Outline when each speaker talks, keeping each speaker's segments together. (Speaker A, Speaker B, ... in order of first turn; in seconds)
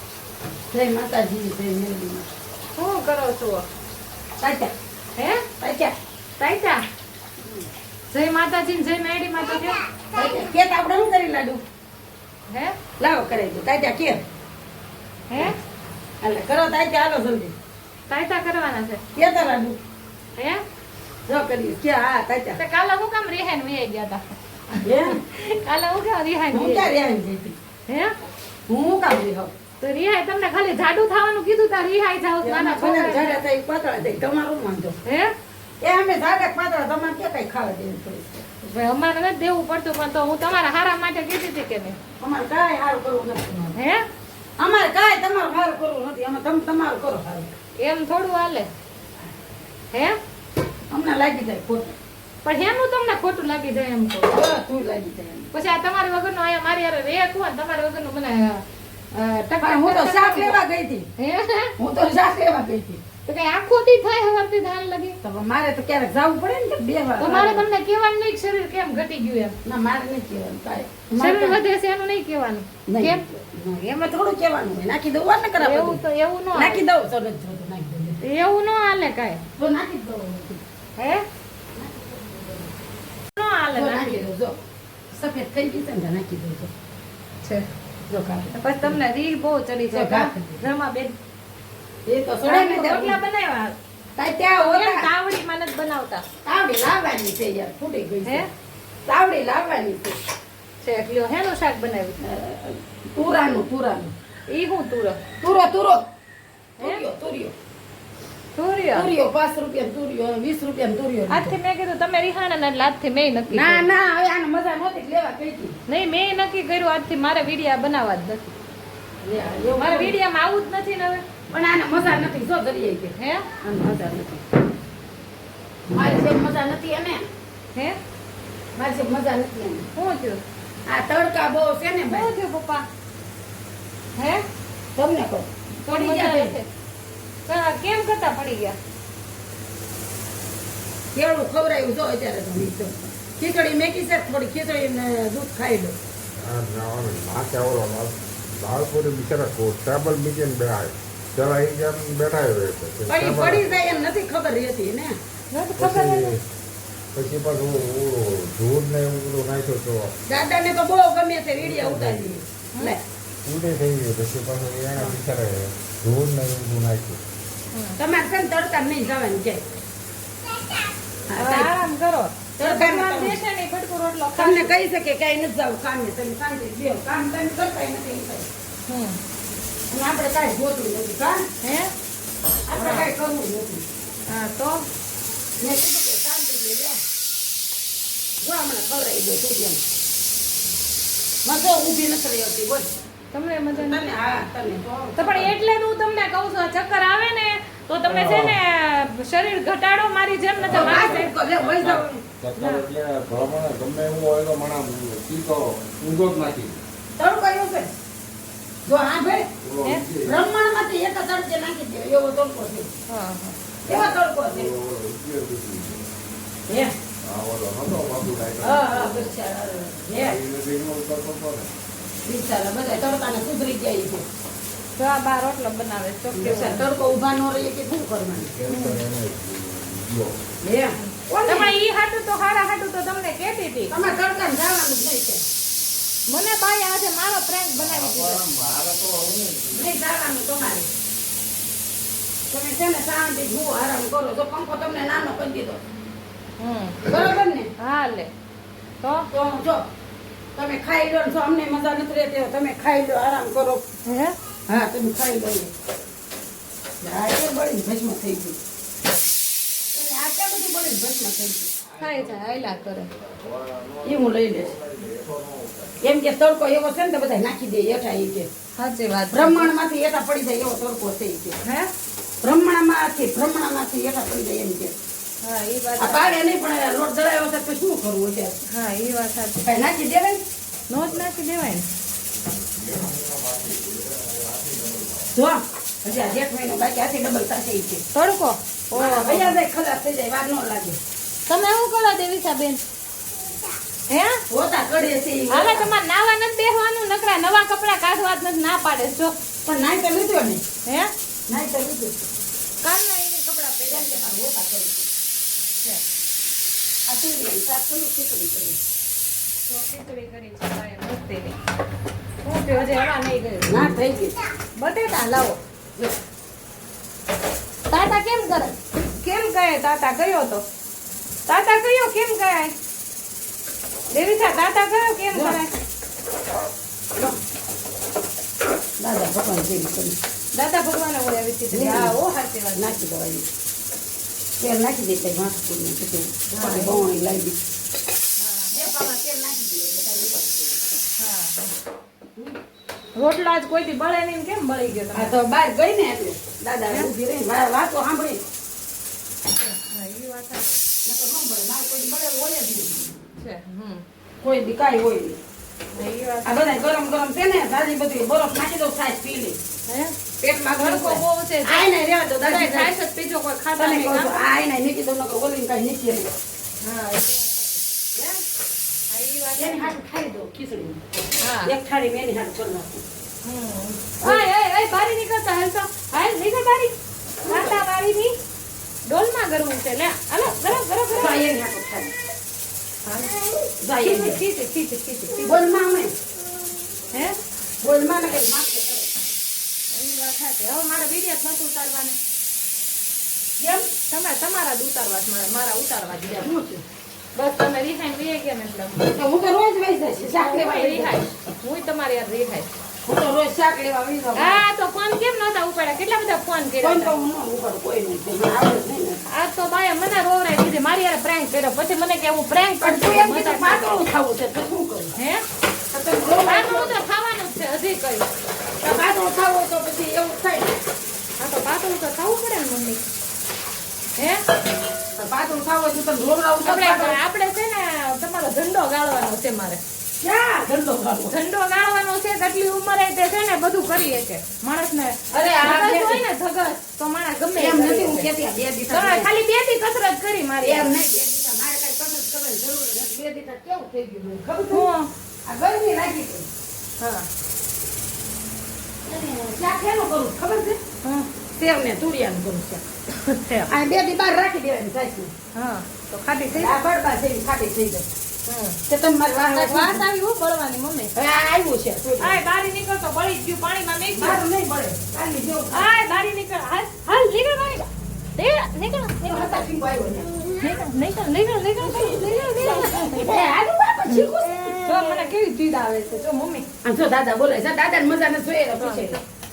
Speaker A: 0.7-2.3, 4.4-4.7, 5.6-5.9, 10.1-11.6, 13.0-14.2, 16.2-17.5, 19.1-19.8, 21.3-22.6, 24.8-25.2, 26.5-27.6, 28.7-29.5, 32.4-35.0, 35.8-38.4, 42.2-43.8, 44.6-47.5, 50.9-51.9, 54.3-55.5, 59.6-61.1, 61.8-63.0, 65.2-67.7, 69.6-71.6, 72.9-76.0, 76.5-78.2, 79.6-80.6, 81.8-82.7, 83.7-84.6, 85.1-86.7, 88.1-89.0, 89.9-90.6, 92.0-93.2, 94.2-95.1, 96.4-98.5, 99.1-100.2, 102.2-104.1, 105.4-106.0, 106.8-107.5, 108.9-111.5, 113.5-115.8, 119.2-120.1, 121.5-124.4, 125.9-127.3, 128.8-129.9, 130.9-132.3, 134.9-136.6, 141.1-145.9, 153.1-155.2, 160.3-163.0, 168.0-169.6, 171.3-171.7, 172.6-173.4, 174.3-178.5, 179.9-181.4, 182.7-183.8, 185.6-187.0, 188.4-189.8, 191.4-192.9, 193.7-195.5, 200.7-202.2, 207.2-207.9, 208.8-209.5, 210.2-212.9, 213.8-214.7, 216.7-216.9, 218.6-220.4, 222.2-224.2, 226.3-228.6, 230.6-231.7, 233.9-235.4, 239.7-240.9, 242.5-245.8, 247.0-247.7, 249.3-249.8, 250.6-253.8, 254.7-255.7, 257.0-258.6, 259.9-261.8, 264.0-264.8, 266.0-268.5, 269.3-271.6, 272.4-274.9, 276.0-278.6, 279.6-280.4, 285.3-288.0, 288.9-291.0, 294.5-295.9, 299.6-300.6, 301.5-302.2, 303.9-305.1, 307.1-308.8, 313.7-314.4, 325.3-325.6, 329.0-330.2, 331.7-332.1, 332.7-333.4, 334.6-337.6, 338.7-341.0, 345.1-348.4, 351.0-353.1, 354.4-355.4, 356.4-359.6, 360.4-362.9, 363.8-366.3, 368.1-368.4, 369.6-371.0, 371.6-373.0, 377.5-377.8, 381.1-382.1, 383.8-384.4, 385.4-386.1, 387.8-389.1, 393.6-393.9, 396.3-396.8, 399.0-401.2, 403.1-404.6, 406.8-409.2, 412.8-415.1, 415.9-416.9, 418.8-420.8, 425.1-427.2, 430.2-431.3, 435.3-436.2, 437.6-439.3, 440.6-444.9, 445.4-446.5, 449.1-450.8, 451.6-452.8, 453.7-455.3, 456.5-458.1, 458.9-460.0, 461.1-462.4, 464.2-465.9, 469.2-470.5, 471.9-475.3, 476.8-479.2
Speaker B: 2.8-3.6, 5.2-5.4, 6.4-6.8, 8.1-9.8, 12.5-12.8, 15.3-15.5, 18.1-19.0, 20.4-20.6, 22.6-26.9, 27.9-28.1, 29.8-33.4, 35.0-35.3, 38.6-42.0, 43.7-44.0, 47.8-48.7, 49.9-50.2, 52.4-54.4, 55.5-60.6, 61.2-61.7, 63.2-65.2, 67.2-69.5, 71.2-73.2, 75.6-76.8, 78.2-79.4, 81.0-81.2, 83.3-84.2, 88.5-91.1, 92.4-93.7, 94.6-96.2, 100.8-102.2, 104.5-105.2, 108.5-109.1, 111.3-113.8, 115.9-118.5, 119.8-121.2, 123.2-123.5, 129.9-130.4, 132.1-132.8, 134.2-134.4, 135.8-136.7, 137.5-138.8, 155.5-156.4, 167.7-168.0, 171.3-174.7, 178.9-179.2, 181.6-181.9, 182.8-183.1, 184.3-184.8, 193.3-194.0, 195.2-201.3, 202.5-202.8, 213.1-213.6, 225.0-226.8, 228.7-229.0, 231.0-233.9, 236.3-238.4, 246.6-247.1, 247.8-248.3, 249.0-249.3, 254.0-254.3, 261.9-263.1, 268.8-269.7, 271.6-271.9, 275.4-276.3, 278.7-279.6, 280.9-281.9, 288.1-289.6, 291.5-292.8, 294.1-294.4, 295.5-299.3, 300.8-301.1, 302.8-304.5, 309.7-311.6, 312.4-313.9, 314.8-315.6, 317.9-320.6, 321.5-322.7, 324.1-325.7, 330.5-332.9, 336.5-337.1, 338.4-338.8, 341.2-341.7, 343.1-345.3, 349.5-350.7, 353.4-354.0, 355.9-356.6, 359.9-360.1, 360.8-361.9, 362.4-364.4, 366.8-367.8, 369.1-369.9, 371.4-371.7, 373.4-376.9, 377.4-378.3, 379.1-381.4, 383.0-383.4, 384.0-385.6, 387.1-387.4, 389.9-392.2, 394.1-396.5, 397.4-399.0, 400.3-402.7, 404.3-407.1, 409.3-414.0, 415.2-415.4, 416.4-418.2, 421.4-423.0, 424.2-424.4, 426.6-429.8, 431.3-438.3, 438.9-440.9, 444.7-445.1, 447.0-447.3, 451.0-451.3, 453.1-453.7, 455.5-456.8, 458.4-458.8, 459.5-461.1, 462.2-464.4, 465.7-469.6, 470.6-473.3, 474.1-476.6, 478.8-479.2
Speaker C: 146.4-153.8, 155.8-156.4, 157.1-160.1, 161.6-162.2, 163.4-167.2, 198.1-198.6, 200.6-206.8, 209.6-210.4, 213.8-216.0, 217.2-219.3, 220.2-221.7, 228.5-230.4, 237.8-239.8, 262.0-262.4, 263.3-266.0, 282.6-285.3